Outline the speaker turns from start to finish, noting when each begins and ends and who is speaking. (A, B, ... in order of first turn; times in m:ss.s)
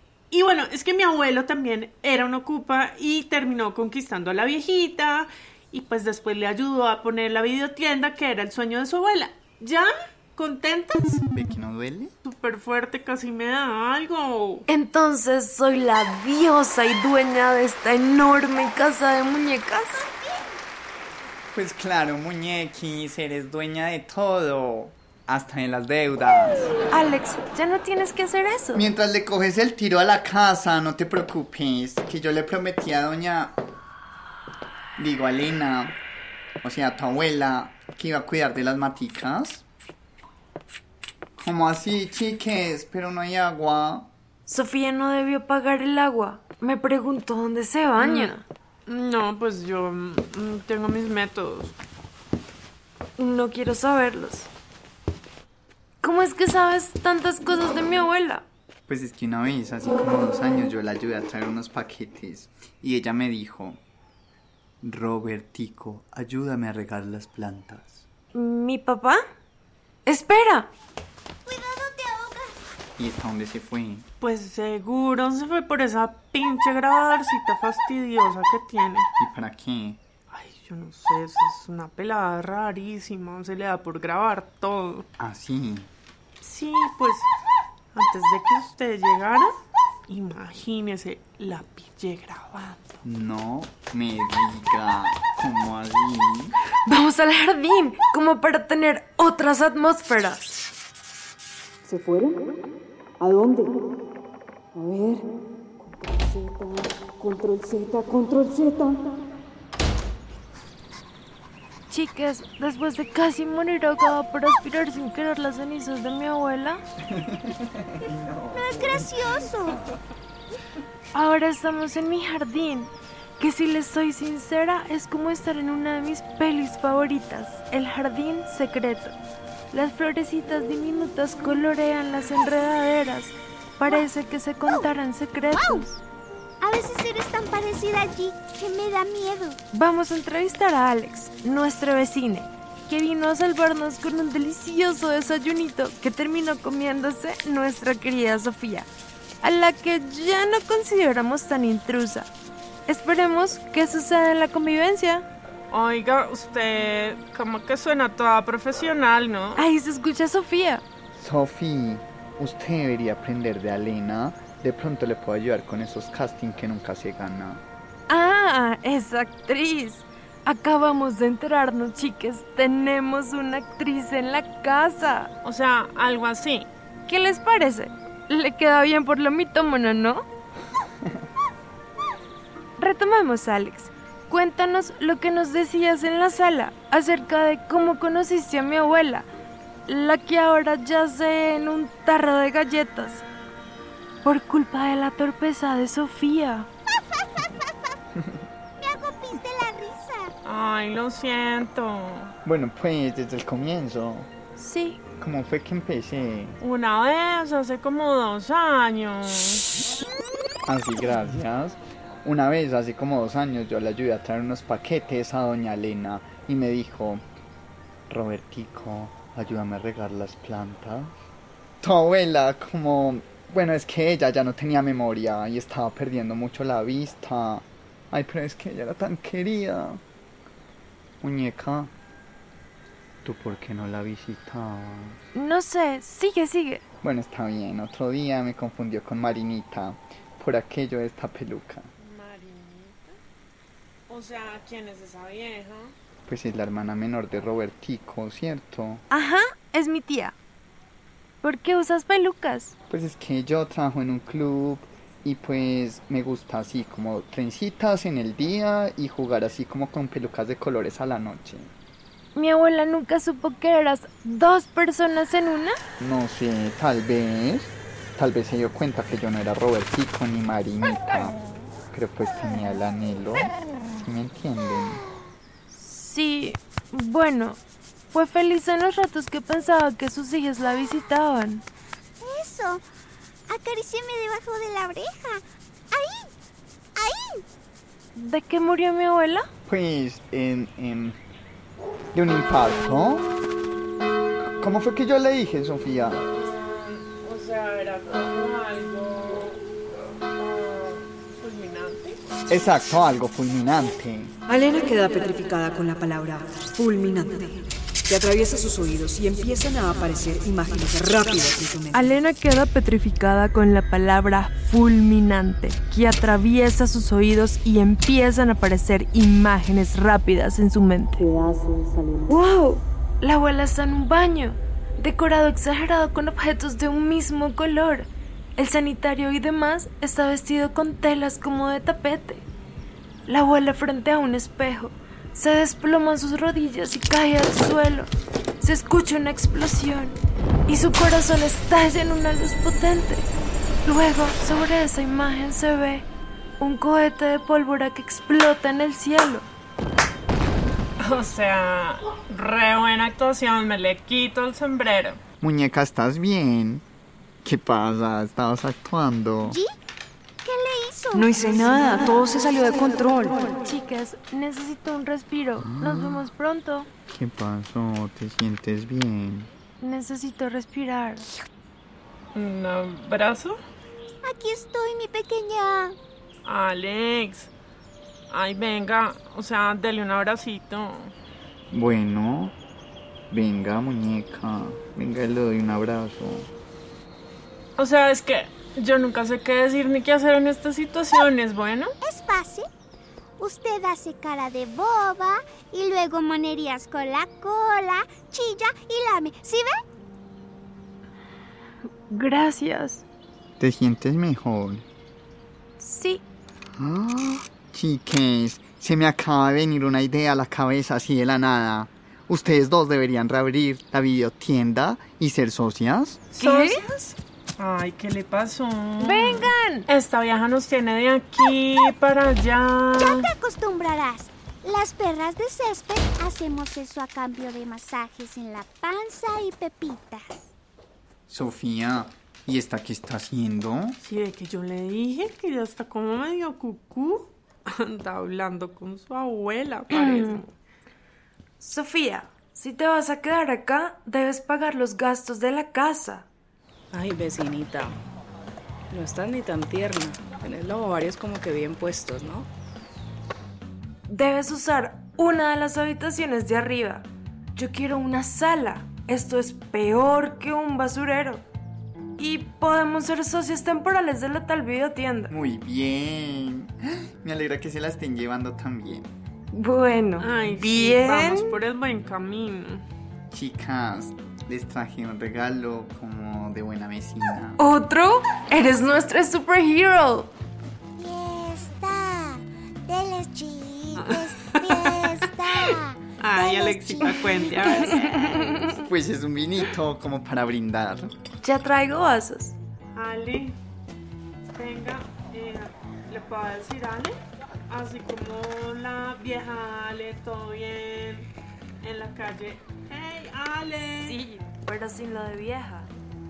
0:00.3-0:11.2 A
0:11.3-0:12.1 B
0:12.2-0:14.6 A
0:14.7-0:20.0 C
0:20.0-0:20.6 D
0:21.5-0:26.7 B
0:26.9-0:28.8 C
0:28.8-0:33.6 B
0:35.0-0:36.0 B
0:36.6-0:39.6 B
0:41.4-0:44.1 B
0:44.5-0:48.4 C
0:48.0-0:51.8 A
0:53.2-0:54.5 C
0:56.0-0:58.4 C
0:58.9-1:03.8 B
1:04.8-1:08.1 B
1:08.3-1:09.2 C
1:10.1-1:10.7 C
1:11.5-1:12.6 D
1:13.0-1:14.1 B
1:14.2-1:19.1 A
1:19.2-1:20.0 B
1:20.3-1:25.1 A
1:25.2-1:25.9 B
1:26.4-1:27.3 A
1:27.9-1:29.5 A
1:30.1-1:33.0 A
1:33.0-1:36.6 B
1:36.9-1:40.6 C
1:41.8-1:42.4 E
1:43.2-1:43.8 E
1:44.8-1:45.3 E
1:45.8-1:49.0 E
1:51.9-1:56.8 C
1:57.1-2:00.0 B
1:58.5-1:59.8 D
2:01.1-2:09.2 C
2:09.7-2:16.0 C
2:15.5-2:15.8 D
2:16.6-2:19.6 D
2:19.7-2:28.9 C
2:29.4-2:32.3 C
2:32.9-2:35.3 C
2:35.7-2:39.6 A
2:39.6-2:40.8 C
2:41.2-2:47.6 B
2:48.1-2:55.3 C
2:55.4-2:56.7 A
2:57.1-3:00.2 C
3:02.8-3:09.3 C
3:09.9-3:13.2 C
3:14.2-3:16.7 C
3:18.2-3:18.4 B
3:18.8-3:20.3 D
3:20.4-3:22.3 A
3:22.4-3:24.3 B
3:24.6-3:25.0 C
3:25.2-3:26.6 B
3:26.6-3:29.6 A
3:30.7-3:37.2 B
3:38.1-3:41.1 B
3:41.8-3:50.0 B
3:51.2-3:51.9 B
3:53.2-3:55.2 B
3:55.4-3:56.8 C
3:57.0-4:01.9 B
4:02.0-4:03.2 A
4:04.1-4:05.9 A
4:06.3-4:09.0 B
4:09.1-4:10.4 C
4:11.4-4:12.8 C
4:12.9-4:21.7 B
4:22.4-4:25.8 C
4:26.0-4:31.4 B
4:31.9-4:35.0 B
4:35.7-4:37.6 C
4:38.1-4:41.6 C
4:42.2-4:42.8 D
4:43.5-4:46.3 D
4:47.0-4:47.4 D
4:48.2-4:49.4 C
4:49.7-4:51.2 B
4:52.1-4:53.3 B
4:54.6-4:56.2 B
4:56.3-4:59.6 A
5:00.4-5:02.2 A
5:02.5-5:04.3 B
5:04.5-5:12.2 E
5:11.9-5:21.3 C
5:22.3-5:32.5 C
5:33.3-5:43.3 C
5:43.8-5:46.1 C
5:46.6-5:49.5 C
5:51.0-5:55.2 A
5:55.4-5:56.8 B
5:57.4-5:59.6 B
5:59.4-5:59.7 D
6:00.4-6:01.3 D
6:01.2-6:03.6 E
6:03.6-6:06.9 C
6:05.6-6:06.3 B
6:07.1-6:09.5 B
6:09.8-6:11.3 C
6:12.4-6:13.6 A
6:14.2-6:16.0 D
6:16.4-6:17.5 A
6:18.3-6:21.1 A
6:21.7-6:22.6 B
6:23.3-6:26.5 B
6:27.8-6:31.9 A
6:32.0-6:32.6 D
6:33.4-6:39.8 D
6:42.1-6:43.0 C
6:43.6-6:44.8 B
6:45.8-6:46.2 C
6:46.8-6:56.2 B
6:56.3-7:03.3 A
6:56.4-6:56.8 C
6:59.0-6:59.9 C
7:03.0-7:10.5 D
7:11.3-7:14.0 B
7:14.0-7:20.5 A
7:19.9-7:20.4 C
7:21.6-7:26.3 C
7:26.9-7:28.0 F
7:28.9-7:32.5 F
7:34.1-7:41.4 C
7:42.2-7:45.3 C
7:45.3-7:49.1 B
7:49.5-7:51.6 C
7:50.2-7:52.8 A
7:53.3-7:57.6 B
7:57.6-8:00.3 C
8:01.0-8:08.3 D
8:04.0-8:08.5 A
8:07.8-8:08.8 C
8:08.7-8:11.1 B
8:11.4-8:12.6 C
8:13.0-8:13.6 A
8:14.5-8:17.2 A
8:17.7-8:21.3 A
8:21.8-8:24.2 A
8:24.0-8:25.9 C